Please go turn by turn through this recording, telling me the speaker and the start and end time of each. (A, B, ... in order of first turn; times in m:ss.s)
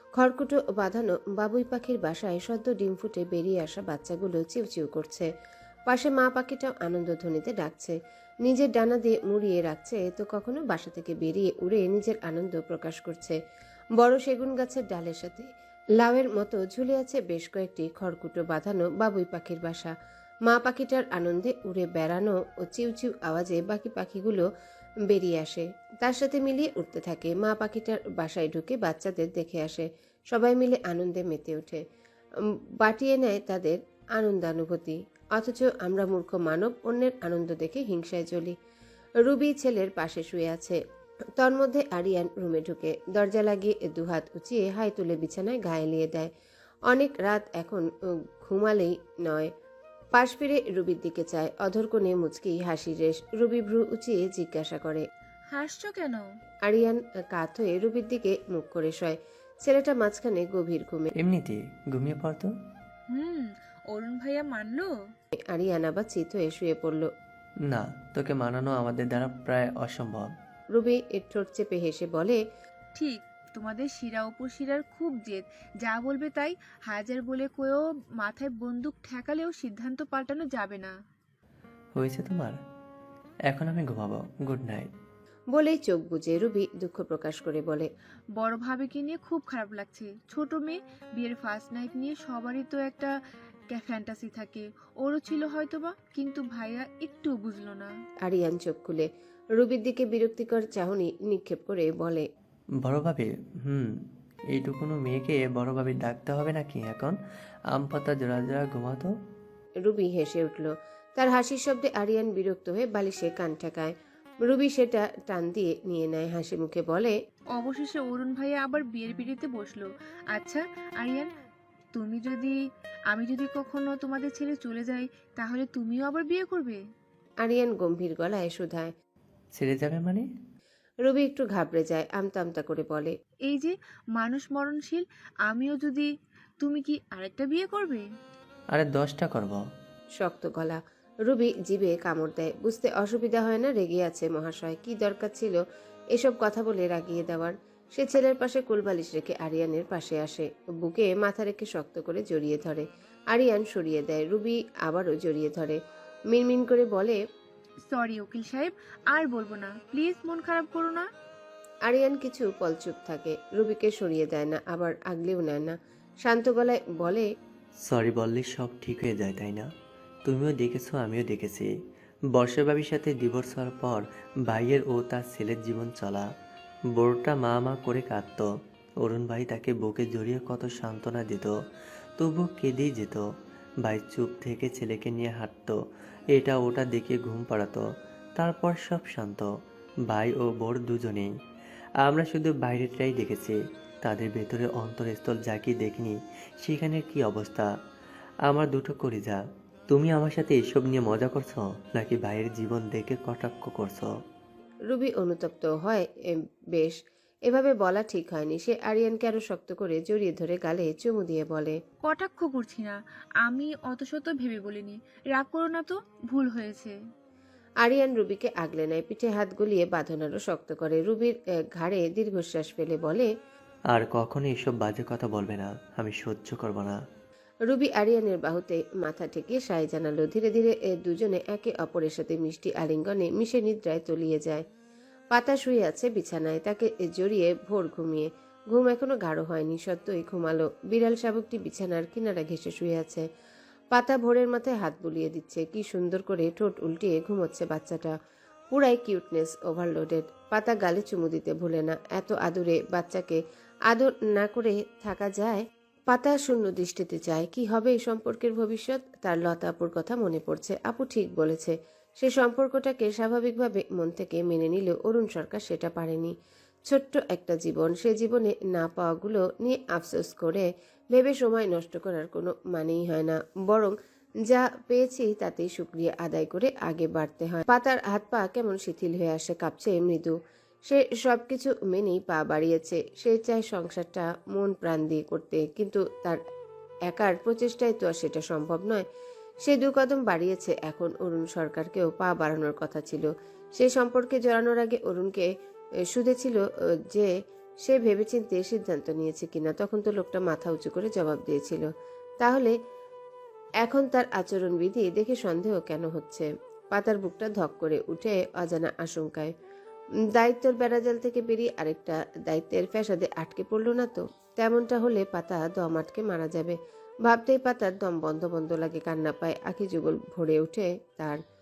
0:00.2-0:05.3 A
0:05.9-0:13.4 A
0:14.0-0:19.9 A
0:20.5-0:24.4 A
0:25.1-0:31.8 A
0:32.8-0:38.6 A
0:39.2-0:40.8 A
0:41.4-0:46.3 A
0:46.9-0:47.9 A
0:48.4-0:49.5 A
0:50.1-0:55.0 A
0:55.5-0:56.2 B
0:56.6-1:01.1 A
1:01.2-1:02.5 C
1:03.1-1:04.9 B
1:05.5-1:07.1 A
1:07.7-1:10.3 C
1:10.7-1:12.4 A
1:13.0-1:20.9 B
1:21.9-1:22.6 C
1:23.5-1:24.9 C
1:25.5-1:27.9 A
1:28.4-1:33.1 B
1:33.7-1:37.9 B
1:38.2-1:42.2 A
1:42.8-1:43.9 C
1:44.5-1:47.2 C
1:47.7-1:49.1 C
1:49.8-1:57.1 A
1:57.6-2:01.3 B
2:02.0-2:02.6 B
2:03.1-2:06.8 B
2:07.4-2:08.9 A
2:09.6-2:10.2 C
2:11.0-2:13.1 A
2:13.5-2:16.1 B
2:16.6-2:18.0 B
2:18.7-2:19.6 C
2:20.2-2:25.6 A
2:26.2-2:35.8 A
2:36.3-2:37.2 A
2:37.9-2:41.1 B
2:41.9-2:47.2 A
2:47.8-2:49.7 C
2:50.2-2:51.7 C
2:52.4-2:56.2 C
2:57.0-2:58.5 C
2:59.0-3:01.5 C
3:02.2-3:03.2 C
3:03.8-3:05.8 C
3:06.3-3:07.8 C
3:08.4-3:09.5 C
3:10.1-3:11.3 C
3:12.0-3:17.7 C
3:18.5-3:19.4 C
3:19.9-3:24.1 C
3:24.9-3:31.8 A
3:32.0-3:37.0 B
3:37.8-3:43.3 A
3:43.9-3:47.0 C
3:47.7-3:54.6 A
3:55.3-4:03.2 A
4:03.9-4:08.1 A
4:08.7-4:26.3 A
4:26.9-4:33.9 A
4:34.4-4:40.3 A
4:40.9-4:46.4 A
4:47.1-4:49.0 A
4:49.6-4:55.5 A
4:56.1-4:56.6 A
4:57.8-5:01.9 A
5:02.4-5:02.7 A
5:03.8-5:09.5 A
5:10.4-5:21.4 A